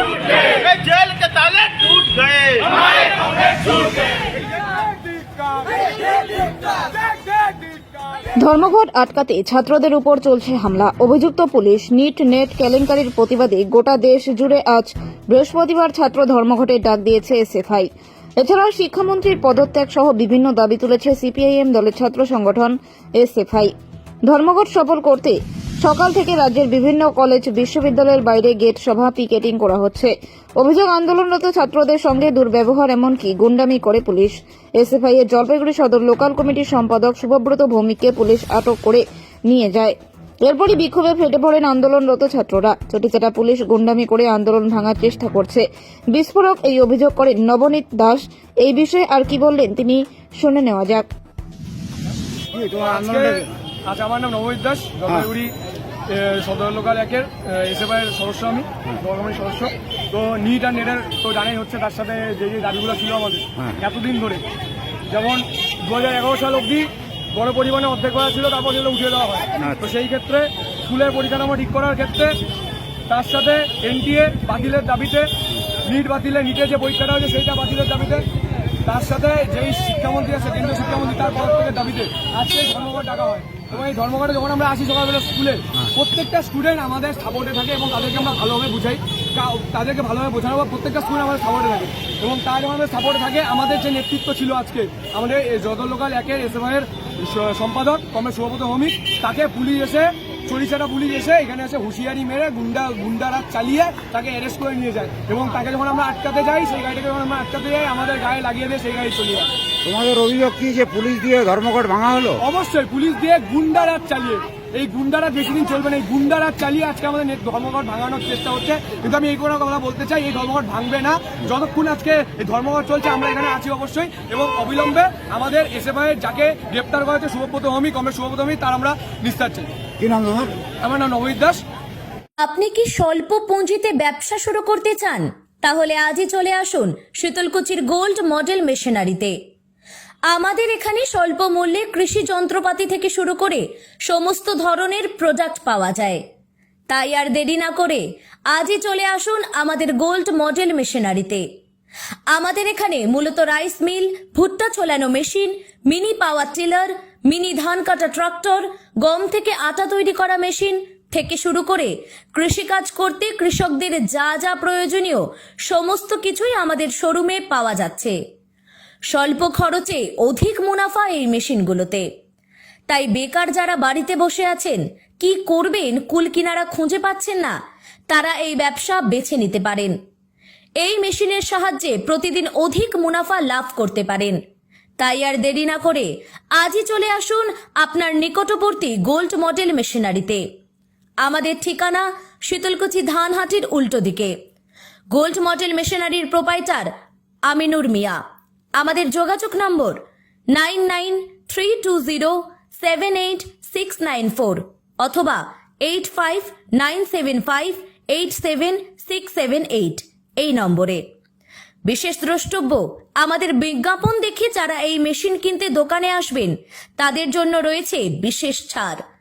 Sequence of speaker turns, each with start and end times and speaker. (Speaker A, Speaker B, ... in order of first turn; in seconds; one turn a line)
Speaker A: 0.4-2.9
Speaker B: 8.4-17.9
Speaker B: 18.4-23.7
Speaker B: 24.2-51.1
Speaker C: 52.5-53.5
Speaker D: 52.9-55.5
Speaker D: 56.1-64.4
Speaker D: 65.1-72.4
Speaker D: 73.1-75.3
Speaker D: 75.8-78.3
Speaker D: 78.8-109.5
Speaker C: 109.8-112.4
Speaker D: 112.4-129.7
Speaker C: 130.0-130.5
Speaker D: 130.8-131.6
Speaker E: 132.4-139.4
Speaker E: 140.3-146.2
Speaker E: 146.9-151.4
Speaker E: 152.3-168.2
Speaker E: 169.1-172.1
Speaker E: 172.9-177.6
Speaker E: 178.1-179.9
Speaker E: 180.8-184.4
Speaker E: 185.0-190.4
Speaker E: 191.2-194.3
Speaker E: 195.1-196.9
Speaker E: 197.5-198.2
Speaker E: 198.8-200.0
Speaker E: 200.5-211.0
Speaker E: 211.8-219.0